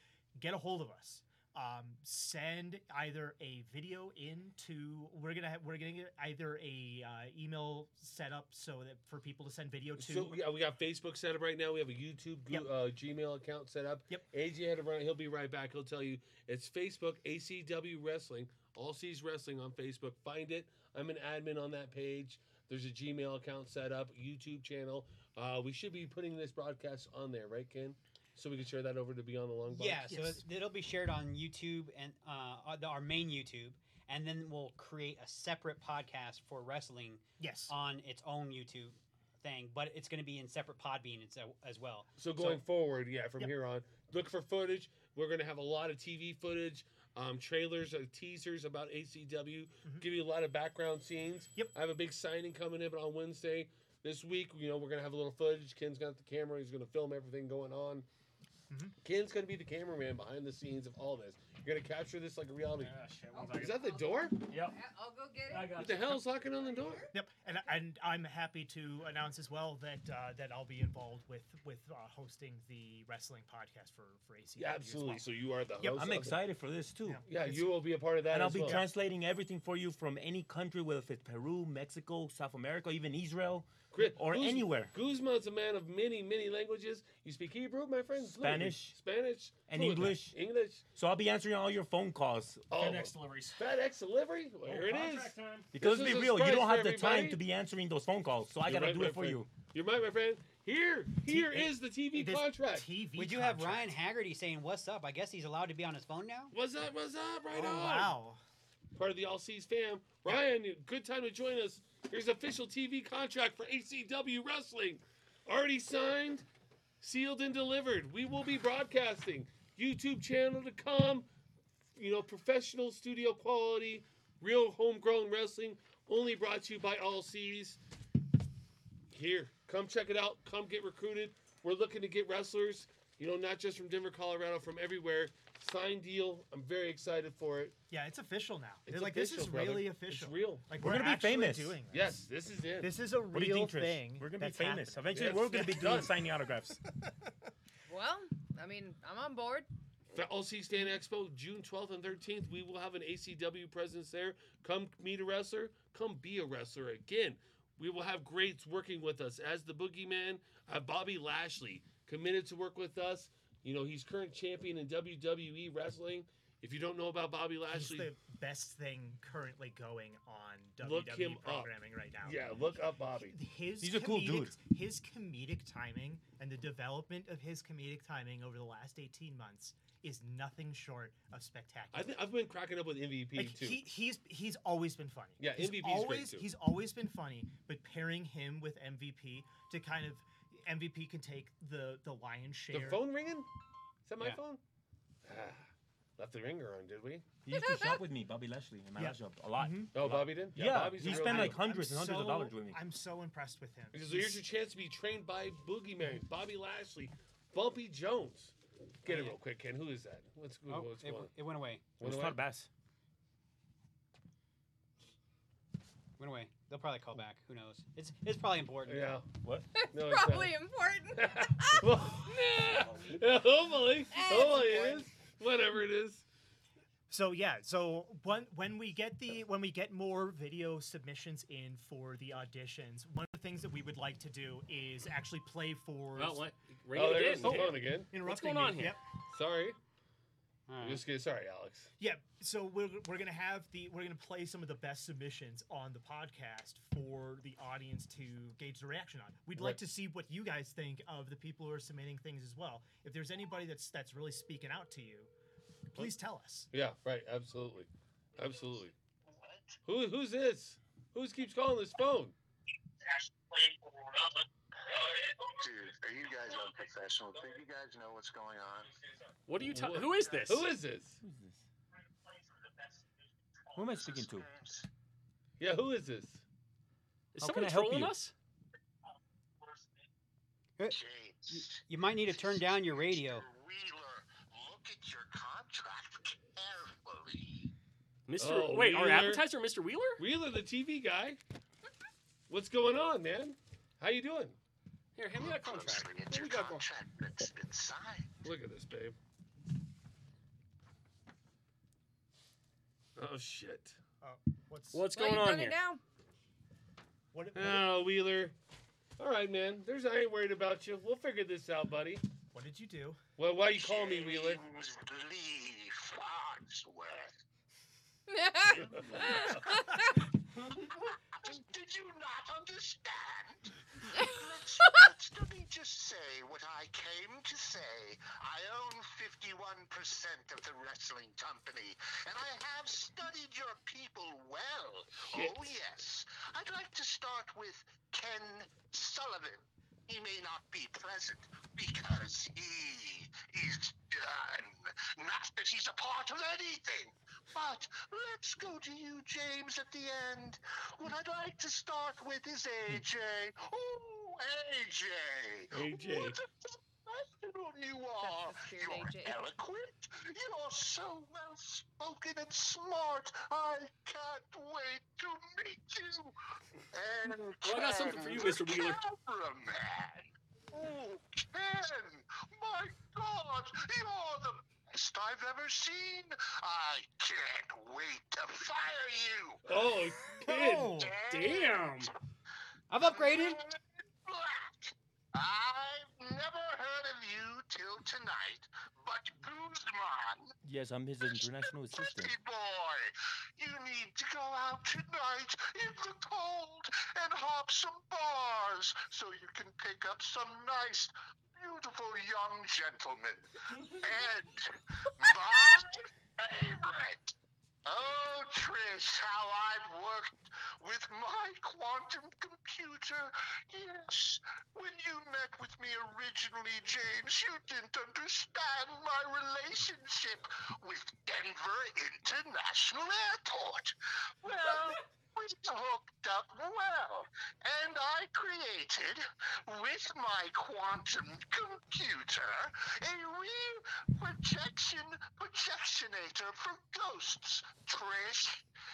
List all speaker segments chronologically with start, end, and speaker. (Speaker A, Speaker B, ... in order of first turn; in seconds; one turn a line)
Speaker A: 0.4-10.4
Speaker B: 10.0-30.4
Speaker C: 29.7-42.1
Speaker A: 30.1-30.4
Speaker A: 37.4-37.7
Speaker B: 42.2-58.1
Speaker A: 42.4-42.6
Speaker A: 58.7-59.0
Speaker B: 59.0-64.4
Speaker D: 62.8-63.9
Speaker E: 63.3-65.9
Speaker D: 64.5-64.8
Speaker D: 65.5-66.2
Speaker B: 65.8-67.1
Speaker E: 66.5-67.1
Speaker A: 67.1-75.2
Speaker B: 74.6-76.4
Speaker A: 75.8-76.2
Speaker F: 75.9-77.2
Speaker A: 77.1-77.7
Speaker B: 77.2-78.8
Speaker F: 78.3-84.9
Speaker A: 78.6-78.9
Speaker B: 83.9-90.8
Speaker F: 88.2-89.0
Speaker F: 89.7-90.4
Speaker F: 91.0-92.7
Speaker B: 92.7-97.4
Speaker D: 92.8-93.6
Speaker D: 94.7-95.7
Speaker F: 95.7-99.5
Speaker B: 98.6-102.9
Speaker A: 101.3-103.9
Speaker C: 103.2-106.5
Speaker B: 106.5-108.2
Speaker A: 107.5-108.4
Speaker B: 108.9-116.5
Speaker B: 117.0-121.3
Speaker B: 122.0-127.8
Speaker B: 129.1-137.8
Speaker A: 137.9-142.2
Speaker B: 138.9-140.7
Speaker F: 140.8-141.8
Speaker B: 141.9-142.9
Speaker A: 142.8-145.0
Speaker F: 143.3-146.8
Speaker B: 145.1-146.2
Speaker E: 147.9-149.7
Speaker B: 150.1-168.1
Speaker A: 167.7-182.2
Speaker B: 170.8-173.3
Speaker F: 173.8-174.6
Speaker B: 181.9-183.8
Speaker A: 183.4-193.0
Speaker B: 185.4-186.4
Speaker B: 192.7-193.5
Speaker B: 194.1-194.6
Speaker B: 195.2-197.3
Speaker F: 197.4-202.8
Speaker E: 197.5-198.1
Speaker A: 199.0-199.9
Speaker B: 199.9-201.6
Speaker A: 201.0-204.4
Speaker B: 203.9-211.3
Speaker C: 210.7-211.9
Speaker F: 212.0-212.7
Speaker B: 212.0-212.4
Speaker C: 216.2-219.2
Speaker B: 218.8-219.3
Speaker E: 219.7-223.0
Speaker B: 219.9-220.6
Speaker B: 221.2-226.2
Speaker E: 224.1-225.1
Speaker A: 227.1-236.5
Speaker D: 236.2-239.0
Speaker B: 236.9-238.1
Speaker A: 237.4-239.0
Speaker B: 239.3-239.8
Speaker C: 240.7-241.0
Speaker B: 240.8-241.9
Speaker A: 242.0-255.3
Speaker A: 255.9-256.7
Speaker B: 256.7-258.9
Speaker G: 259.4-259.8
Speaker B: 259.9-262.4
Speaker G: 263.1-269.0
Speaker D: 269.5-270.7
Speaker B: 269.6-271.2
Speaker G: 270.1-270.5
Speaker F: 271.2-271.6
Speaker G: 273.8-274.9
Speaker F: 273.8-274.5
Speaker B: 275.6-276.4
Speaker D: 277.3-278.3
Speaker F: 277.4-278.1
Speaker C: 280.8-283.5
Speaker G: 280.9-287.7
Speaker D: 288.3-290.2
Speaker B: 288.4-289.4
Speaker B: 290.2-291.4
Speaker B: 292.5-294.6
Speaker D: 295.2-296.9
Speaker G: 295.3-298.4
Speaker B: 298.4-299.2
Speaker B: 303.2-304.0
Speaker A: 304.2-305.1
Speaker D: 304.9-305.8
Speaker E: 305.1-306.0
Speaker A: 307.3-307.9
Speaker B: 307.6-308.6
Speaker B: 309.2-312.2
Speaker A: 312.5-313.2
Speaker B: 313.4-314.6
Speaker G: 313.7-317.4
Speaker E: 318.3-320.2
Speaker B: 318.8-319.5
Speaker G: 319.2-319.9
Speaker G: 320.7-366.4
Speaker E: 324.1-325.1
Speaker B: 335.2-335.7
Speaker B: 355.7-356.4
Speaker E: 358.2-359.4
Speaker G: 366.9-379.8
Speaker D: 367.6-369.0
Speaker B: 379.6-381.0
Speaker A: 380.4-381.2
Speaker G: 381.0-382.1
Speaker D: 381.3-382.1
Speaker C: 382.9-383.6
Speaker G: 383.0-390.5
Speaker F: 390.6-392.4
Speaker G: 391.2-407.3
Speaker G: 407.9-438.6